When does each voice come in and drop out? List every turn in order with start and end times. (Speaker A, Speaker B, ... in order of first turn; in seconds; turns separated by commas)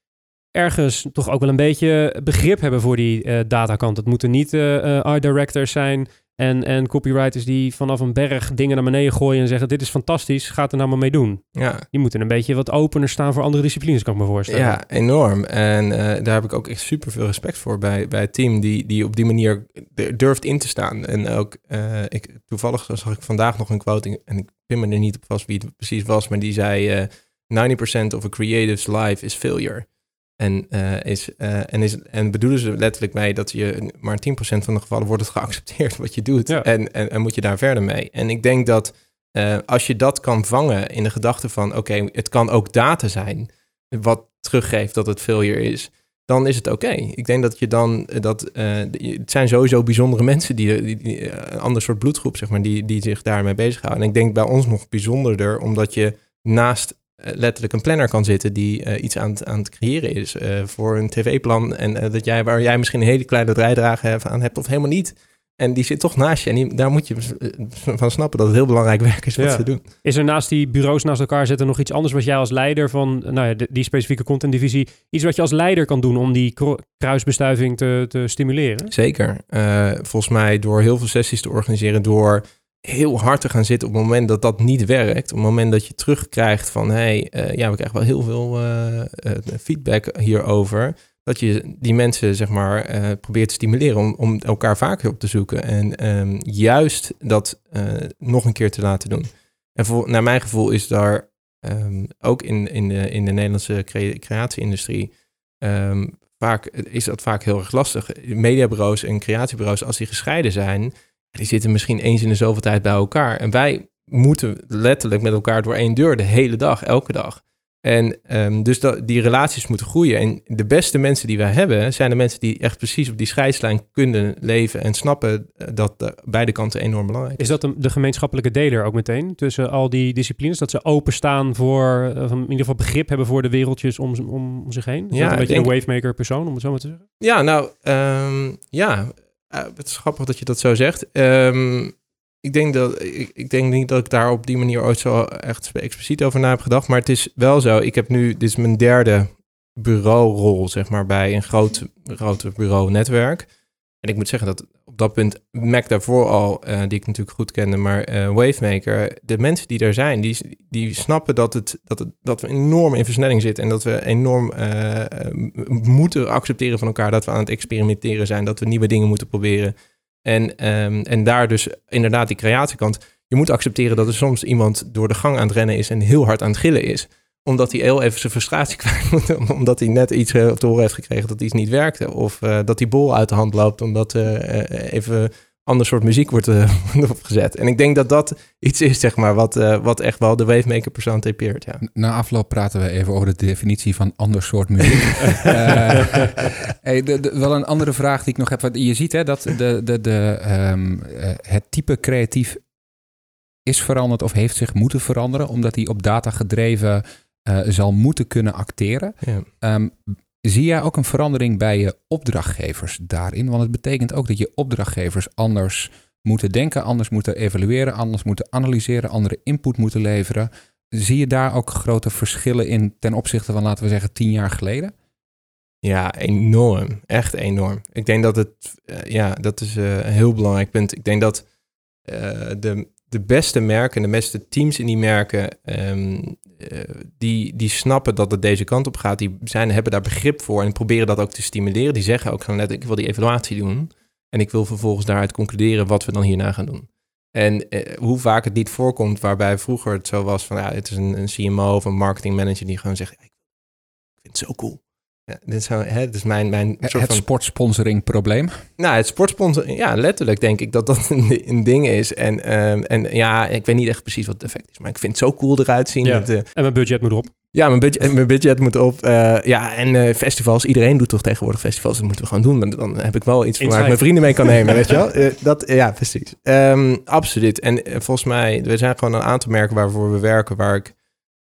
Speaker A: 0.5-14.8, Speaker B: 11.6-11.8, Speaker B: 14.5-29.9, Speaker B: 30.4-69.8, Speaker A: 69.4-78.9, Speaker B: 78.9-105.1, Speaker B: 105.6-127.5, Speaker A: 127.4-137.0, Speaker B: 135.1-135.7, Speaker B: 137.2-153.5, Speaker B: 154.0-169.7, Speaker B: 170.2-191.8, Speaker C: 191.8-202.6, Speaker C: 203.7-224.9, Speaker B: 209.2-209.5, Speaker B: 225.8-231.4, Speaker B: 232.1-253.3, Speaker B: 254.2-257.2, Speaker C: 256.8-258.6, Speaker B: 258.8-266.4, Speaker A: 266.0-267.3, Speaker B: 267.5-280.9, Speaker A: 273.6-274.9